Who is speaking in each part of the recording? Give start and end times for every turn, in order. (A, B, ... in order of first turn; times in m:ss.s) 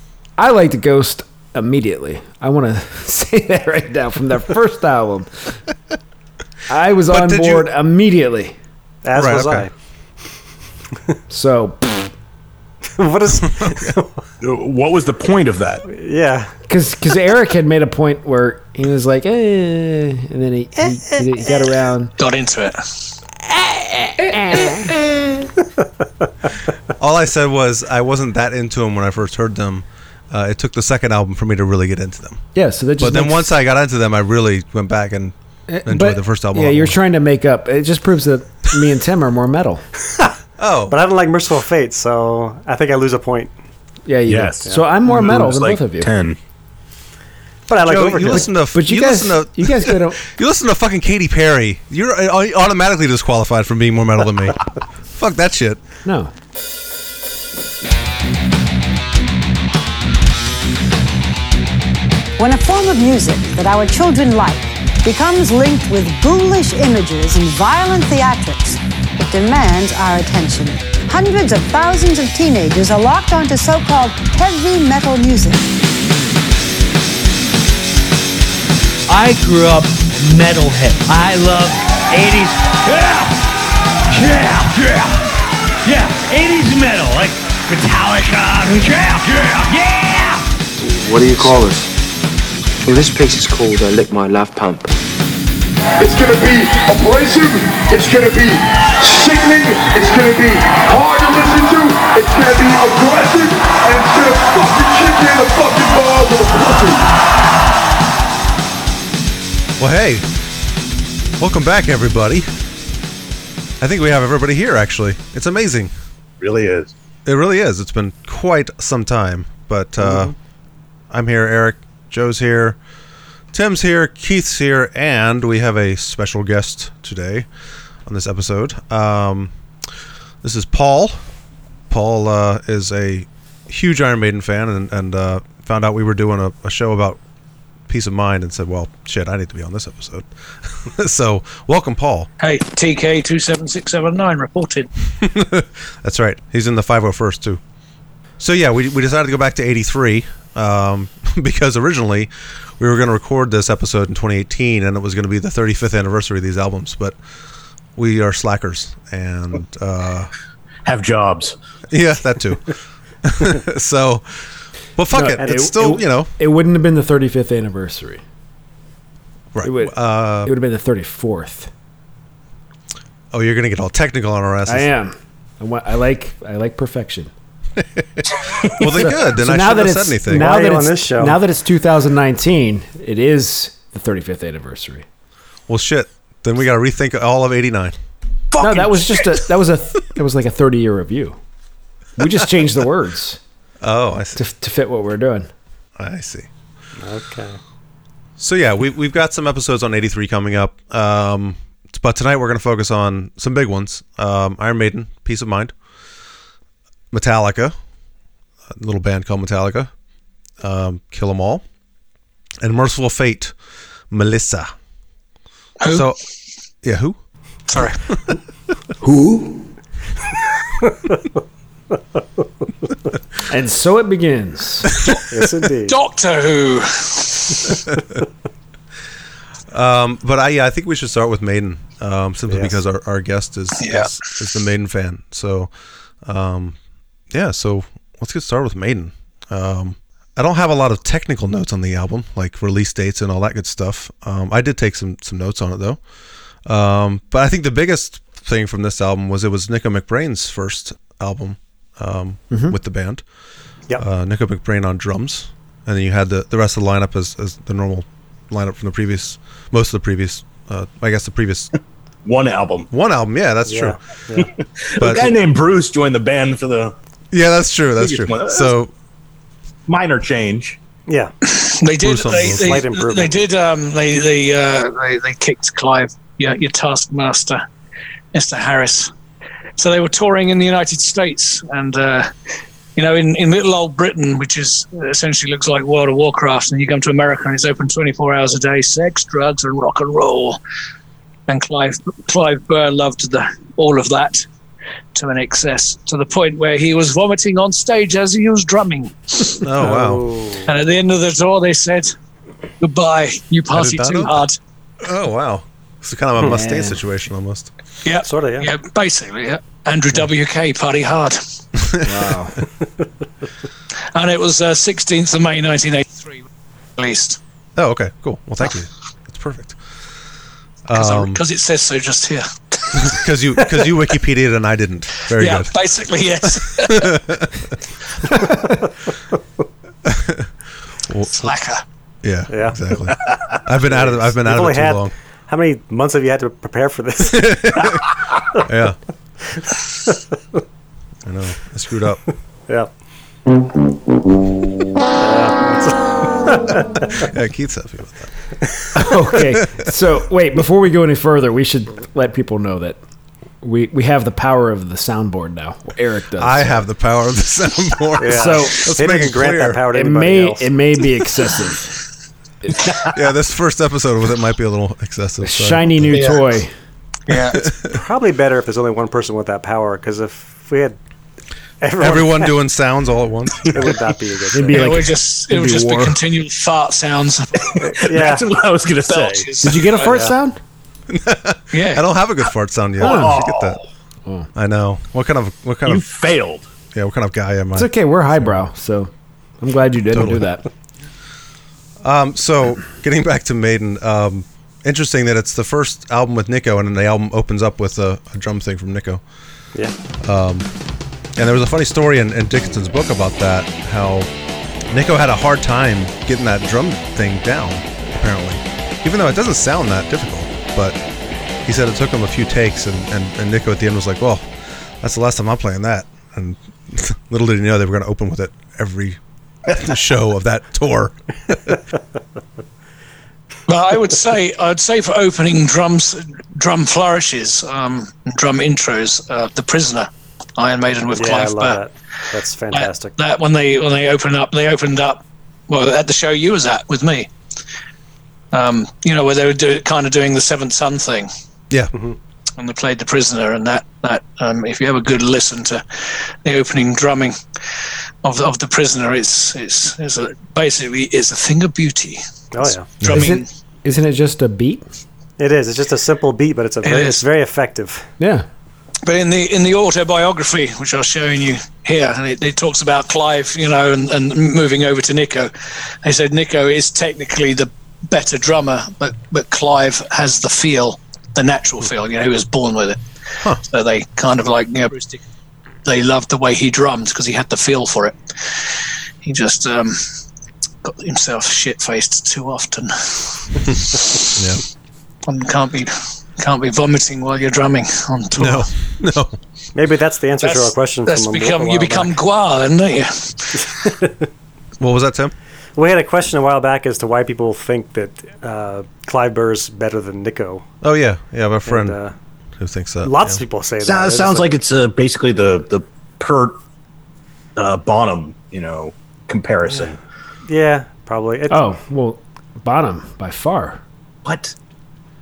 0:00.4-0:05.3 A
0:06.7-0:08.6 A
0:07.1-0:07.7 B
0:09.0-0:09.7 C
0:09.1-0:09.7 B
0:11.3-0:12.1 A
0:13.0-0:14.2 C
0:13.6-0:13.9 B
0:14.4-0:15.8 D
0:15.8-0:16.5 C
0:16.7-0:22.1 A
0:22.2-0:23.1 E
0:23.6-0:24.9 A
0:27.0-0:32.4 B
0:32.6-0:33.5 A
0:33.0-0:35.3 B
0:35.7-0:39.8 A
0:35.8-0:37.0 B
0:40.6-0:41.0 B
0:40.9-0:43.5 C
0:44.1-0:46.1 A
0:44.3-0:46.4 D
0:47.7-0:48.5 C
0:47.8-0:54.6 B
0:48.2-0:50.2 A
0:55.2-0:55.8 B
0:56.0-0:56.3 A
1:02.4-1:15.7 F
1:19.1-1:23.3 G
1:24.1-1:25.1 G
1:25.9-1:30.4 G
1:30.8-1:31.9 H
1:32.8-1:34.9 H
1:36.0-1:47.1 I
1:49.8-1:50.2 B
1:51.4-1:52.5 B
1:53.8-1:55.9 B
1:56.4-1:56.9 D
1:57.2-2:00.3 B
2:00.0-2:00.3 C
2:01.1-2:02.8 B
2:03.5-2:07.5 B
2:08.1-2:09.5 B
2:10.4-2:11.2 B
2:11.9-2:17.2 B
2:17.9-2:22.3 B
2:22.4-2:24.9 E
2:25.2-2:27.6 B
2:28.4-2:37.2 B
2:38.0-2:40.3 B
2:40.8-2:41.6 D
2:41.9-2:44.3 B
2:45.0-2:46.3 B
2:45.1-2:48.2 A
2:45.4-2:45.8 C
2:49.5-2:50.5 B
2:49.6-2:51.7 A
2:53.3-2:54.9 B
2:54.7-2:57.3 A
2:58.0-3:00.5 B
2:59.0-3:05.0 A
3:00.3-3:01.4 C
3:05.7-3:08.0 B
3:08.5-3:09.1 D
3:08.6-3:11.4 A
3:12.2-3:13.4 A
3:13.8-3:14.4 B
3:14.4-3:15.5 A
3:16.0-3:16.5 B
3:17.0-3:17.6 C
3:18.4-3:25.7 B
3:27.1-3:27.8 B
3:28.8-3:29.9 B
3:30.6-3:31.6 B
3:32.6-3:33.6 B
3:34.1-3:34.7 B
3:35.8-3:36.1 E
3:35.9-3:36.2 B
3:36.8-3:37.2 B
3:39.0-3:39.5 A
3:43.5-3:44.9 A
3:45.3-3:46.0 C
3:45.9-3:47.8 E
3:49.7-3:55.7 B
3:52.5-3:52.8 C
3:53.8-3:54.1 E
3:56.2-3:56.8 B
3:57.3-4:06.0 B
4:06.7-4:13.2 B
4:12.5-4:12.8 A
4:14.0-4:21.7 B
4:22.2-4:22.9 D
4:22.9-4:24.0 B
4:23.6-4:24.5 C
4:24.4-4:26.9 D
4:25.0-4:25.4 B
4:27.3-4:28.9 B
4:28.0-4:28.7 D
4:29.9-4:30.8 D
4:31.1-4:31.3 C
4:31.5-4:37.6 E
4:32.0-4:32.9 B
4:32.3-4:33.4 C
4:38.3-4:39.1 E
4:39.8-4:42.3 E
4:43.0-4:50.6 E
4:51.5-4:54.4 E
4:55.2-4:59.4 E
4:59.6-5:00.3 B
4:59.8-5:00.7 C
5:00.7-5:02.1 E
5:02.8-5:04.6 E
5:03.7-5:04.4 B
5:05.0-5:07.7 B
5:06.4-5:07.0 A
5:08.0-5:11.4 E
5:08.2-5:08.7 C
5:11.8-5:12.0 B
5:12.0-5:12.6 A
5:14.1-5:16.5 E
5:17.0-5:17.4 E
5:17.8-5:19.8 B
5:20.9-5:21.4 B
5:21.0-5:23.2 E
5:22.9-5:25.7 B
5:25.4-5:27.2 E
5:26.5-5:27.7 B
5:28.3-5:28.7 B
5:30.0-5:30.5 B
5:31.1-5:31.5 B
5:31.3-5:31.8 E
5:32.2-5:35.1 B
5:32.5-5:32.8 C
5:33.9-5:37.6 C
5:37.3-5:38.0 B
5:38.6-5:39.0 B
5:41.2-5:42.2 B
5:45.2-5:47.1 C
5:47.2-5:48.3 B
5:48.9-5:53.0 A
5:53.6-5:56.8 A
5:56.4-5:59.9 B
5:58.2-6:00.8 C
5:58.3-5:58.9 A
5:59.9-6:01.9 A
6:03.1-6:06.2 B
6:05.4-6:06.7 A
6:06.2-6:06.4 E
6:07.3-6:07.6 E
6:07.3-6:08.0 B
6:07.9-6:11.0 C
6:11.8-6:12.6 C
6:12.0-6:14.0 B
6:13.7-6:15.0 C
6:14.5-6:16.2 A
6:14.7-6:18.1 E
6:17.8-6:19.5 D
6:18.1-6:18.5 C
6:19.1-6:20.3 E
6:19.6-6:20.6 A
6:20.0-6:20.3 C
6:21.1-6:23.8 B
6:21.7-6:22.1 E
6:23.0-6:23.8 D
6:23.0-6:23.4 A
6:24.6-6:26.0 B
6:25.8-6:26.7 D
6:26.9-6:28.5 B
6:27.8-6:30.6 A
6:30.1-6:30.4 B
6:32.0-6:39.2 B
6:40.2-6:40.7 B
6:41.4-6:44.3 B
6:44.9-6:51.0 B
6:51.7-6:54.5 B
6:55.0-7:01.8 B
7:03.7-7:11.9 E
7:11.1-7:13.1 C
7:12.7-7:17.3 E
7:18.5-7:21.3 E
7:22.6-7:27.4 E
7:28.2-7:33.5 E
7:32.5-7:32.9 C
7:33.0-7:33.4 B
7:33.1-7:34.9 A
7:35.4-7:38.1 C
7:36.8-7:37.2 E
7:38.2-7:38.5 A
7:39.0-7:45.5 E
7:46.0-7:53.0 E
7:53.6-7:55.2 E
7:55.8-8:00.0 E
8:00.8-8:03.6 E
8:04.4-8:04.6 B
8:05.3-8:08.7 E
8:08.4-8:09.4 B
8:09.8-8:12.2 C
8:10.4-8:13.7 E
8:14.8-8:15.3 B
8:15.8-8:20.6 C
8:20.8-8:22.0 B
8:21.7-8:22.1 C
8:22.6-8:23.4 B
8:23.0-8:24.5 C
8:23.8-8:26.6 D
8:27.6-8:30.0 D
8:30.5-8:31.6 C
8:31.5-8:33.8 A
8:34.2-8:34.5 D